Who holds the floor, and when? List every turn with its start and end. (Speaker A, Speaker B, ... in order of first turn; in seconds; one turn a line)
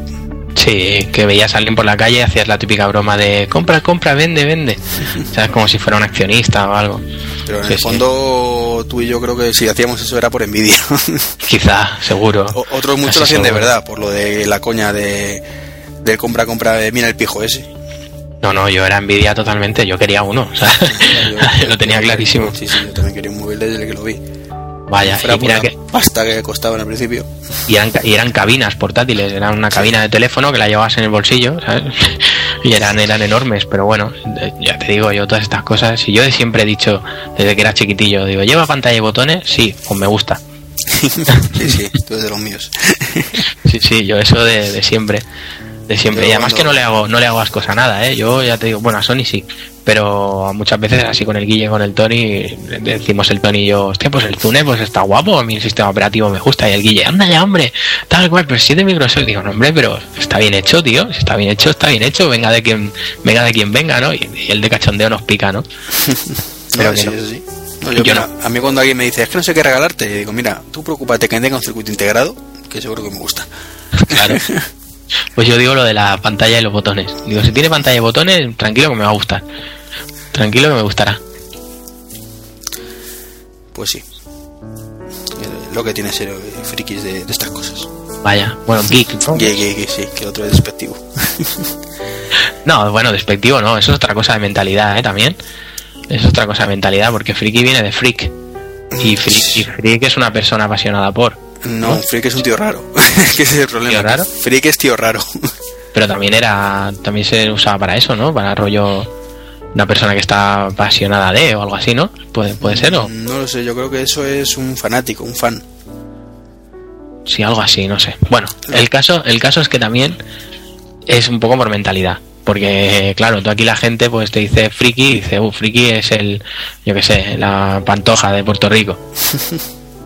Speaker A: 0.6-7.0
Speaker B: 7.5-11.3
Speaker A: 7.7-8.0
Speaker A: 11.4-13.7
Speaker B: 12.5-15.4
Speaker B: 16.0-17.7
Speaker A: 18.4-22.6
Speaker B: 20.8-24.2
Speaker A: 24.9-25.7
Speaker B: 25.0-27.3
Speaker A: 27.7-40.4
Speaker B: 40.9-43.4
Speaker A: 43.6-45.2
Speaker A: 45.9-65.6
Speaker B: 46.1-46.8
Speaker B: 66.0-73.5
Speaker A: 66.8-67.2
Speaker A: 68.0-68.3
Speaker A: 73.9-74.4
Speaker B: 74.1-74.7
Speaker A: 75.3-79.4
Speaker A: 80.3-81.2
Speaker B: 83.7-84.0
Speaker B: 85.3-87.9
Speaker A: 88.2-89.5
Speaker B: 89.3-91.7
Speaker A: 92.6-95.4
Speaker A: 96.1-98.3
Speaker B: 98.9-99.7
Speaker A: 99.0-102.0
Speaker B: 101.6-105.5
Speaker A: 103.9-104.3
Speaker A: 105.9-109.1
Speaker A: 109.7-113.1
Speaker B: 112.6-115.6
Speaker A: 117.3-120.2
Speaker A: 121.1-129.0